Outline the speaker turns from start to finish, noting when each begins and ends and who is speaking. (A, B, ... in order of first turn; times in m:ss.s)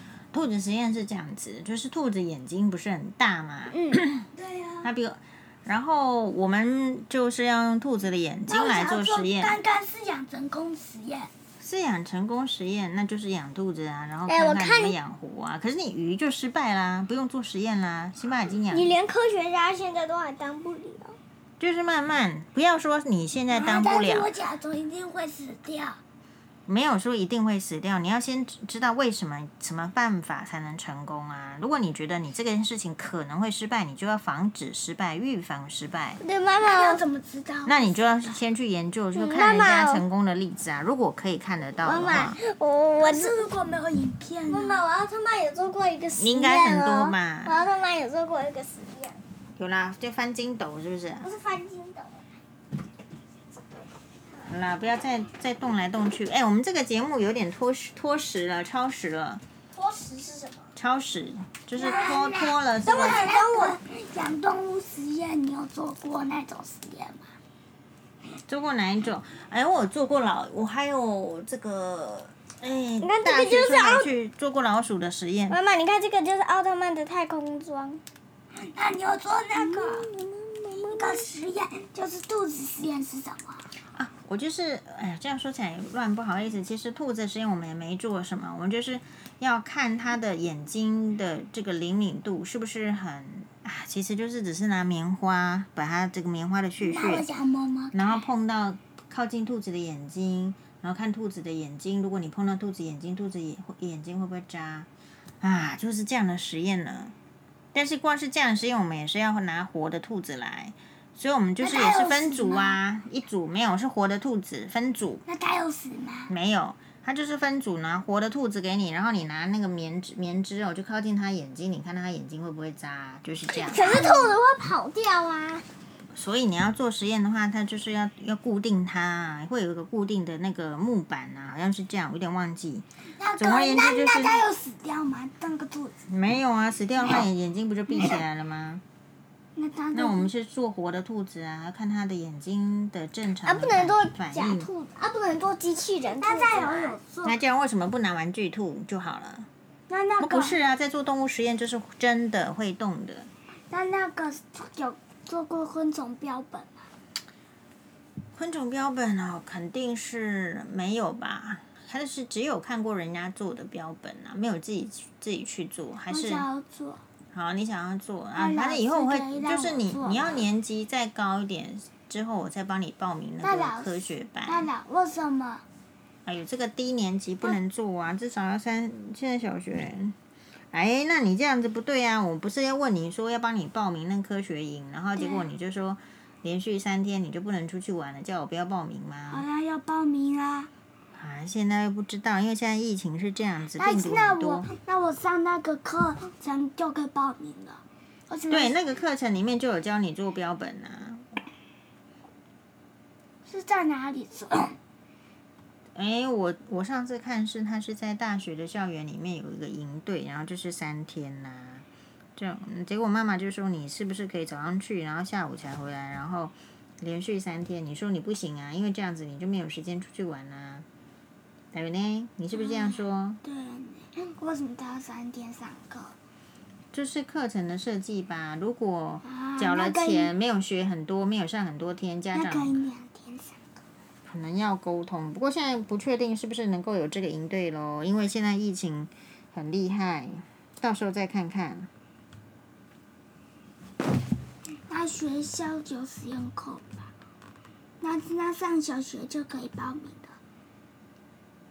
0:00.3-0:04.3 A
0:03.7-0:04.0 B
0:04.3-0:04.9 C
0:04.8-0:09.6 A
0:08.5-0:11.3 C
0:11.6-0:19.0 A
0:14.3-0:15.0 B
0:18.7-0:21.2 B
0:21.6-0:24.3 A
0:23.5-0:26.0 C
0:26.7-0:36.2 A
0:36.2-0:37.0 B
0:36.6-0:38.4 C
0:37.7-0:42.4 A
0:39.2-0:40.0 B
0:41.8-0:43.4 B
0:43.0-0:44.8 C
0:44.5-0:49.2 B
0:46.2-0:47.6 A
0:49.6-0:51.3 A
0:51.2-0:52.2 B
0:54.4-0:59.4 A
0:59.7-1:00.7 B
1:00.8-1:03.3 A
1:01.8-1:07.3 C
1:03.1-1:03.8 B
1:08.5-1:15.6 A
1:13.0-1:14.1 B
1:15.5-1:18.0 B
1:18.6-1:20.1 C
1:19.6-1:21.2 B
1:20.8-1:23.7 C
1:24.0-1:37.3 A
1:36.8-1:38.0 C
1:37.9-1:44.9 A
1:45.4-1:47.2 A
1:47.7-1:55.2 A
1:51.6-1:52.8 C
1:55.3-1:56.3 C
1:56.3-2:04.0 A
2:03.6-2:05.6 B
2:03.7-2:04.3 C
2:06.1-2:12.9 A
2:13.2-2:16.0 C
2:13.4-2:14.4 A
2:16.1-2:18.8 A
2:19.6-2:20.3 C
2:19.9-2:24.7 A
2:23.4-2:27.0 B
2:26.1-2:27.4 C
2:27.2-2:29.5 A
2:29.9-2:30.6 C
2:30.2-2:33.3 A
2:33.7-2:36.9 C
2:38.4-2:46.5 A
2:46.1-2:47.0 C
2:47.3-2:54.7 A
2:48.4-2:50.5 C
2:53.4-2:55.6 C
2:56.3-3:00.2 A
3:00.7-3:09.5 A
3:05.2-3:05.5 C
3:09.3-3:10.7 C
3:11.2-3:14.7 A
3:13.8-3:18.8 C
3:18.5-3:21.3 A
3:23.4-3:24.8 C
3:26.0-3:40.9 A
3:41.7-3:43.4 A
3:42.5-3:46.2 C
3:46.9-3:52.8 A
3:49.2-3:50.3 C
3:52.3-3:53.6 C
3:54.3-4:01.9 A
4:04.9-4:07.1 C
4:08.0-4:10.4 C